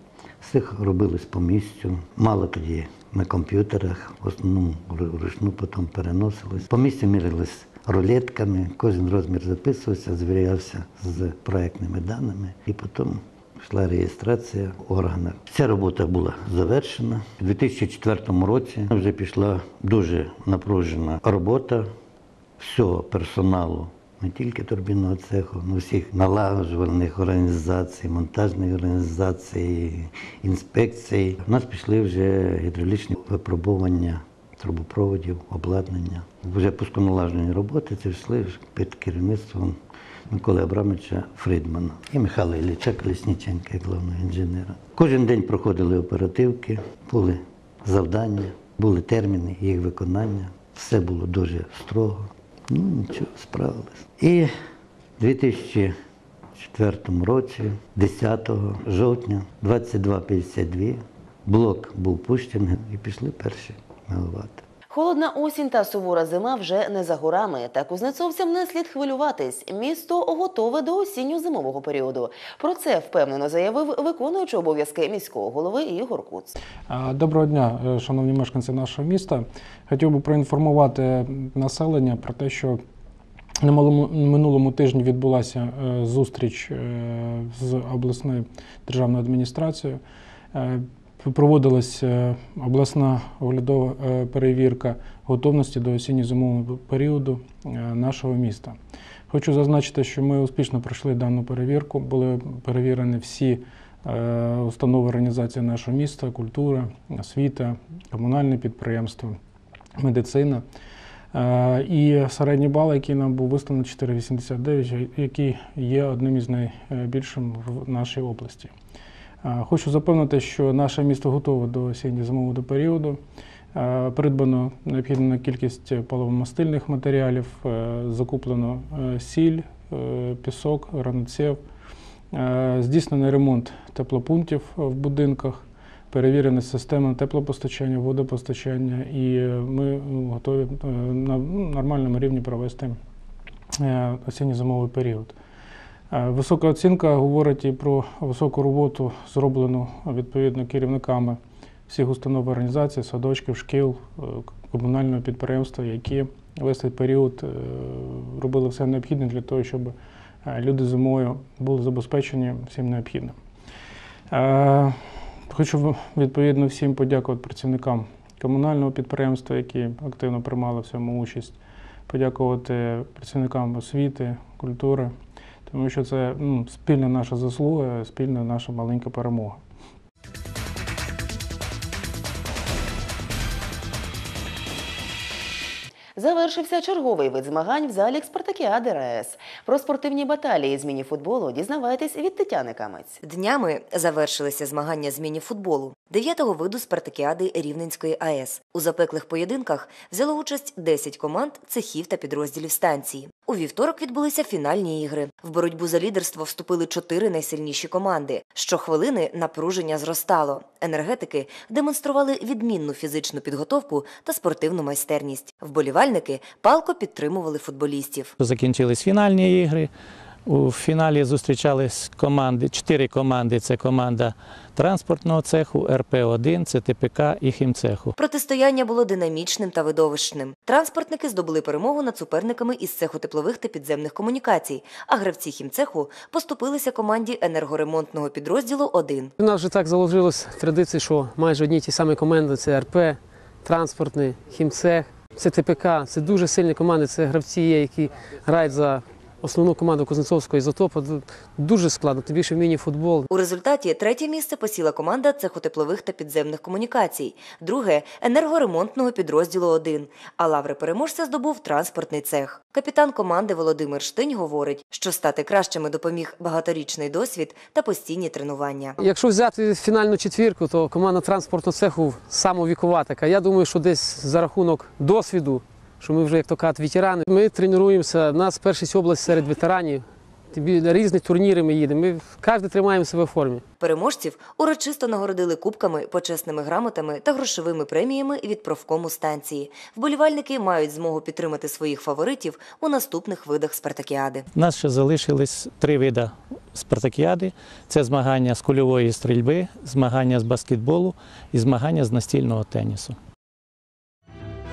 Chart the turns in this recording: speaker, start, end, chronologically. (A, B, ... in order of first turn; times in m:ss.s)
0:00.4-0:21.9 A
0:22.6-0:39.8 A
0:40.3-0:54.5 A
0:55.2-0:55.9 A
0:56.6-1:04.6 A
1:04.9-1:16.5 B
1:16.9-1:22.8 C
1:23.6-1:30.0 C
1:30.5-1:38.8 C
1:39.3-1:49.4 C
1:50.0-1:50.6 C
1:51.3-1:58.7 C
1:59.4-2:03.2 C
2:03.7-2:11.6 C
2:12.3-2:23.0 C
2:23.8-2:25.4 C
2:26.1-2:43.4 C
2:44.3-2:55.1 C
2:55.7-2:59.6 C
3:06.2-3:13.2 B
3:13.2-3:38.3 D
3:38.4-3:39.9 E
3:40.6-3:44.3 E
3:44.8-3:48.1 E
3:48.2-3:59.3 D
3:59.4-4:13.2 F
4:13.3-4:29.0 D
4:29.0-4:43.6 F
4:43.8-4:54.4 D
4:54.7-4:56.3 E
4:56.9-5:01.1 E
5:01.6-5:03.1 E